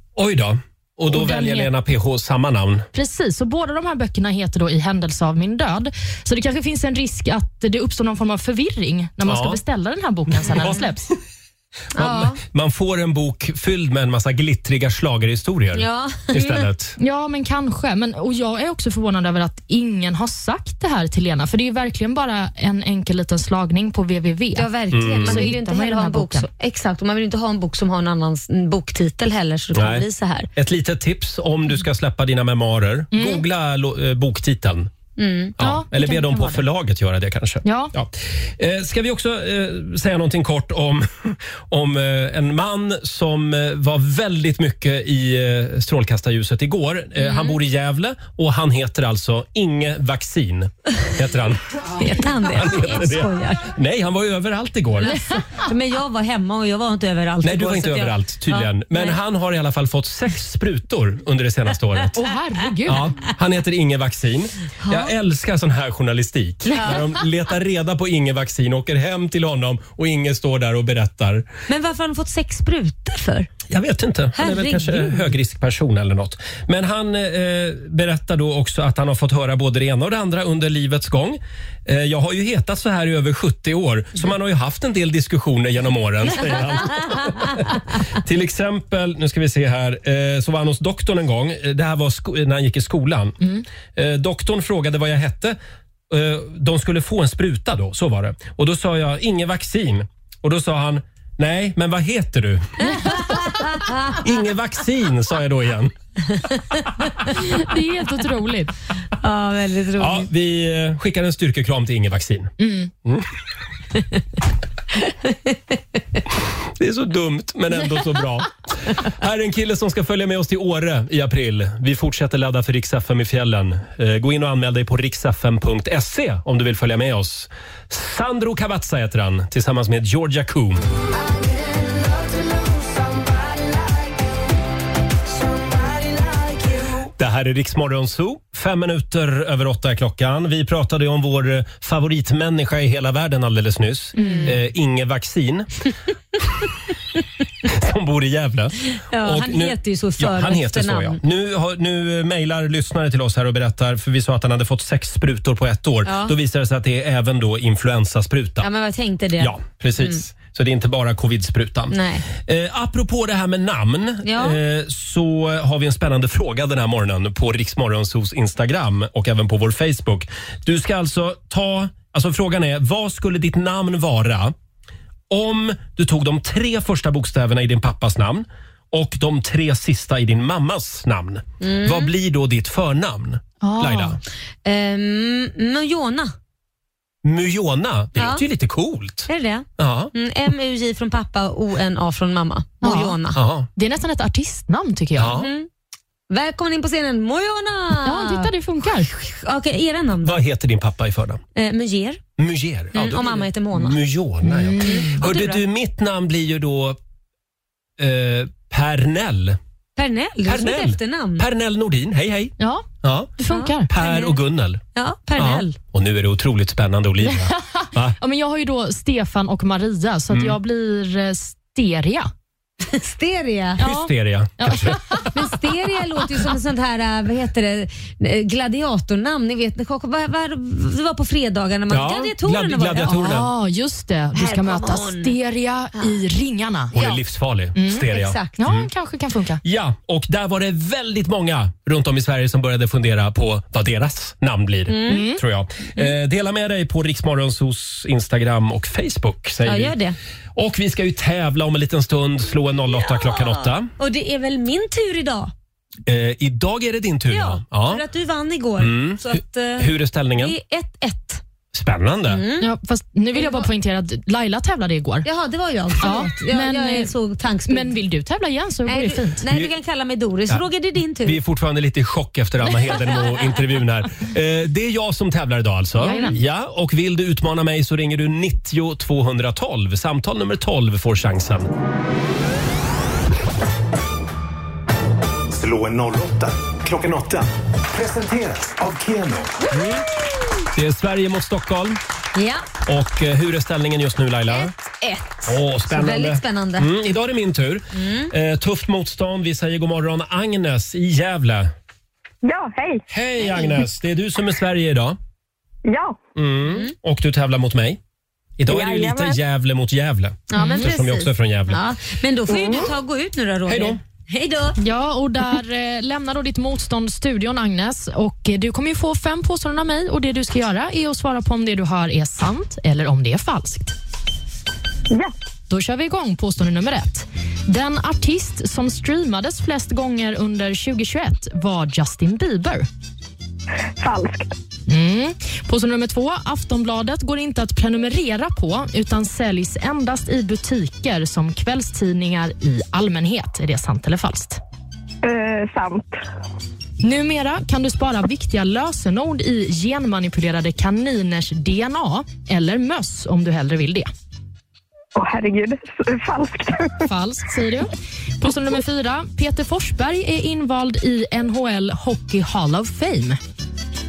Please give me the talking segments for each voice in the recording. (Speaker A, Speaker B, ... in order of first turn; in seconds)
Speaker A: 0.2-2.9, 9.2-9.6, 10.4-11.1, 11.9-17.0, 24.9-25.5, 29.7-34.9, 35.6-55.2, 57.4-62.2, 62.9-71.5, 73.7-95.6, 96.1-103.2, 104.1-105.9, 110.0-112.5, 116.8-130.8, 137.2-145.7, 147.7-158.7, 159.4-174.6, 175.3-184.2, 187.2-190.1, 193.3-193.7, 195.2-195.5, 200.2-201.4, 202.4-207.0, 208.0-209.6, 210.4-213.3, 213.9-214.8, 215.4-218.2, 220.3-220.6, 223.8-225.3, 231.9-233.5, 236.9-238.9, 239.6-250.0, 250.6-253.9, 256.1-258.0, 258.8-260.6, 261.7-262.4, 271.2-281.7, 289.7-290.1, 290.7-292.0, 292.9-294.7, 295.5-301.7, 303.1-305.2, 306.4-308.0, 308.6-311.8, 313.7-314.0
Speaker B: 1.1-1.7, 2.9-11.1, 17.0-24.7, 25.2-26.5, 33.1-33.4, 35.6-36.6, 37.6-37.9, 62.1-63.1, 107.3-108.7, 112.6-112.9, 144.2-144.5, 183.6-184.2, 192.8-193.2, 193.8-195.4, 198.0-199.1, 204.4-205.2, 212.6-212.9, 213.4-213.9, 217.2-222.3, 223.8-225.3, 233.1-237.0, 237.8-238.1, 238.6-239.6, 245.1-245.4, 262.6-265.3, 266.0-267.1, 267.7-269.4, 276.0-276.4, 310.6-310.9, 314.8-323.9, 325.7-332.9, 334.9-344.6, 347.0-354.1, 357.1-363.4
Speaker C: 11.9-12.4, 15.7-16.6, 24.6-30.5, 35.2-35.5, 47.2-47.6, 51.9-53.7, 55.6-59.2, 64.8-65.1, 66.7-67.1, 71.7-73.5, 74.4-75.3, 109.2-110.3, 144.2-144.5, 149.0-151.2, 156.1-156.3, 158.6-160.2, 161.9-162.2, 164.2-164.6, 181.6-182.1, 184.6-186.3, 188.2-188.4, 189.3-193.4, 195.3-195.7, 196.3-198.5, 199.1-200.4, 201.6-202.2, 202.9-204.0, 204.8-205.6, 210.0-211.5, 213.5-214.3, 214.9-215.8, 222.8-223.8, 225.3-233.4, 234.3-235.3, 238.0-238.5, 244.9-245.2, 249.6-250.2, 252.9-255.5, 257.3-261.4, 262.3-262.7, 263.3-263.7, 265.2-267.9, 268.9-271.4, 292.4-292.6, 294.9-296.9, 297.9-298.3, 310.5-314.8
Speaker D: 131.1-134.3, 135.3-137.1, 285.5-289.6
Speaker E: 302.4-303.0, 305.9-306.1, 308.7-309.4, 334.0-334.5, 345.2-346.1, 355.2-356.9